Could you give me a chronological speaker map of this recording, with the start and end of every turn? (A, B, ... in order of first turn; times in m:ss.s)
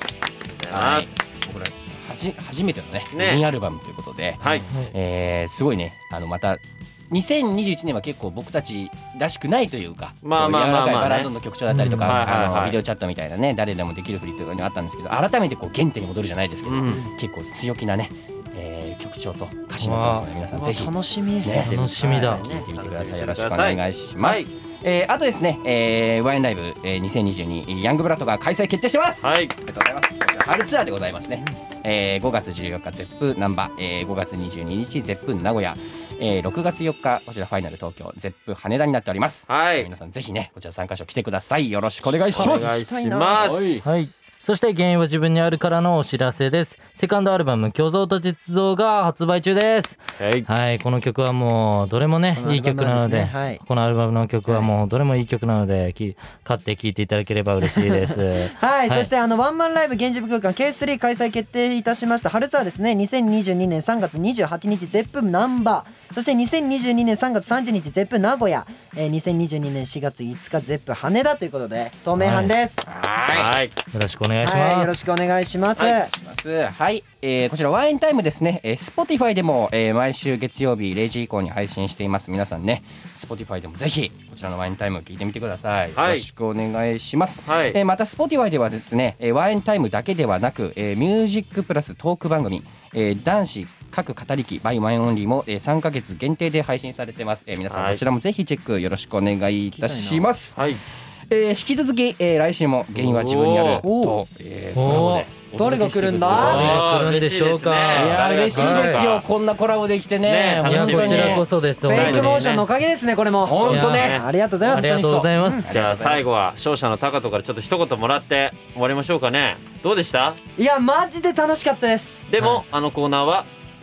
0:00.5-0:01.5 A
0:00.7-0:20.9 B
0:03.1-0:03.4 A
0:04.4-0:04.7 A
0:10.2-0:11.3 A
0:11.7-0:12.2 C
0:12.0-0:12.8 A
0:16.6-0:17.0 A
0:19.8-0:20.3 C
0:20.5-0:22.6 D
0:21.4-0:24.5 A
0:21.4-0:42.8 B
0:21.5-0:22.4 C
0:29.2-0:29.5 A
0:39.5-0:39.9 A
0:42.3-0:43.8 A
0:42.3-0:43.6 D
0:43.4-0:43.9 B
0:43.8-0:59.1 C
0:50.2-0:50.5 A
0:52.3-0:53.6 D
0:57.7-1:12.8 D
1:12.2-1:12.5 C
1:12.8-1:13.6 B
1:13.3-1:13.7 A
1:13.9-1:15.0 C
1:14.4-1:16.1 D
1:16.1-1:40.6 B
1:25.9-1:26.3 A
1:27.5-1:27.8 A
1:37.7-1:38.0 A
1:39.7-1:40.3 D
1:40.5-1:40.8 A
1:41.3-1:46.8 B
1:42.9-1:43.8 A
1:43.8-1:44.2 D
1:44.7-1:45.3 C
1:45.5-1:46.8 D
1:45.6-1:49.3 A
1:46.3-1:49.1 C
1:47.9-1:51.5 B
1:50.2-1:52.7 A
1:50.6-1:52.6 C
1:51.8-1:55.7 D
1:53.4-1:56.2 B
1:53.6-1:54.2 A
1:53.6-1:55.7 C
1:55.7-2:00.4 A
2:00.6-2:02.2 D
2:02.3-2:03.5 A